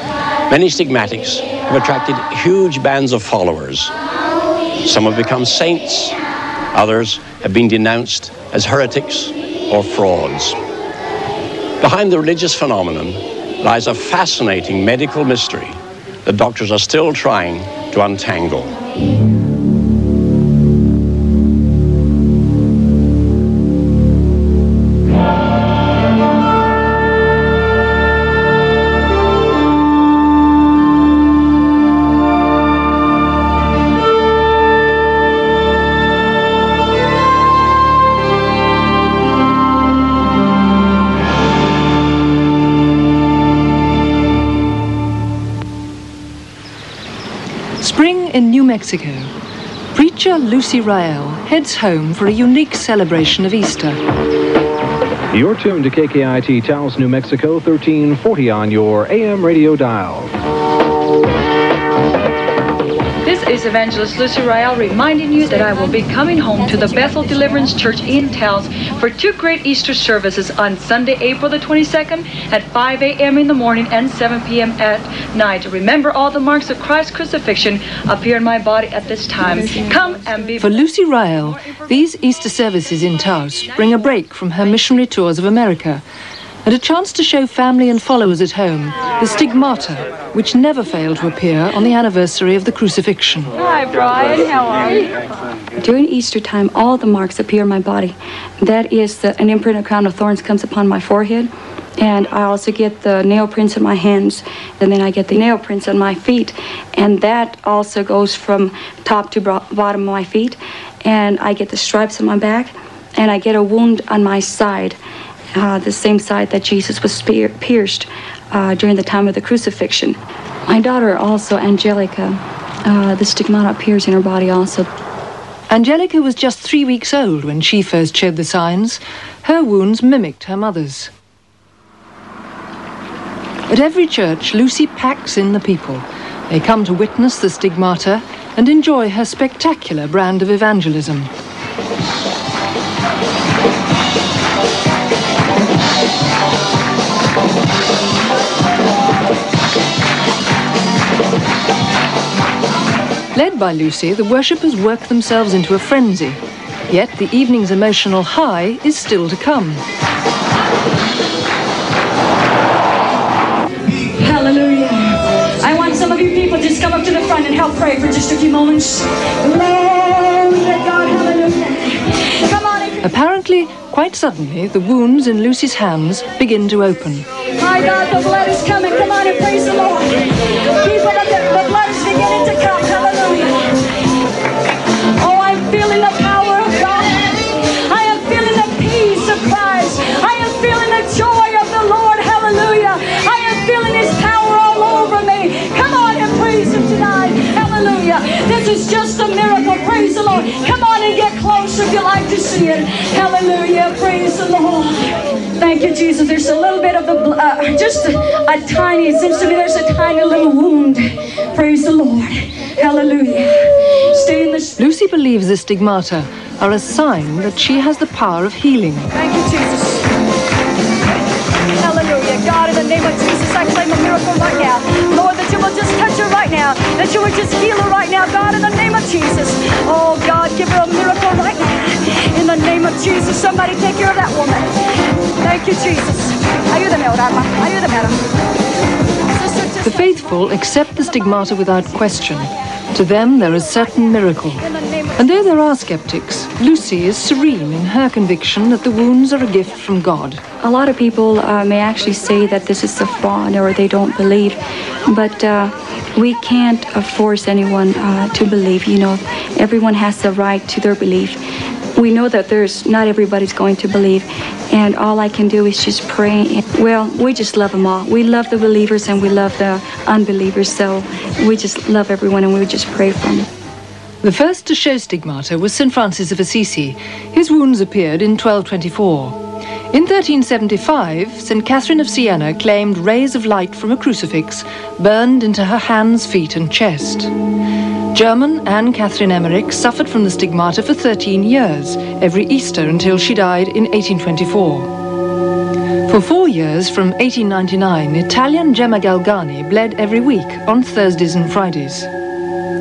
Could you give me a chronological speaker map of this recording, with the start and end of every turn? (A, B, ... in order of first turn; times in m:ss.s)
0:00.5-0:03.9 A
0:04.8-0:06.2 A
0:06.7-0:10.6 A
0:11.8-0:18.8 A
0:47.8-0:49.3 B
0:49.9-0:54.0 B
0:55.3-1:00.3 C
1:03.2-1:20.7 D
1:20.6-1:26.0 B
1:26.6-1:33.5 B
1:33.6-1:35.1 E
1:35.8-1:55.0 F
1:55.6-2:04.9 F
2:05.7-2:11.1 B
2:13.7-2:21.3 B
2:33.3-2:39.8 B
2:44.0-2:53.0 E
2:53.0-2:57.3 B
2:57.6-3:03.8 E
3:05.2-3:34.8 E
3:34.8-3:39.1 B
3:39.1-3:40.1 E
3:41.8-3:54.7 E
3:55.4-3:58.2 E
3:59.8-4:04.6 B
4:05.2-4:10.4 B
4:10.6-4:21.4 F
4:22.0-4:33.5 F
4:34.2-4:39.4 B
4:39.9-4:47.3 B
4:48.1-4:54.9 B
4:56.1-5:02.1 B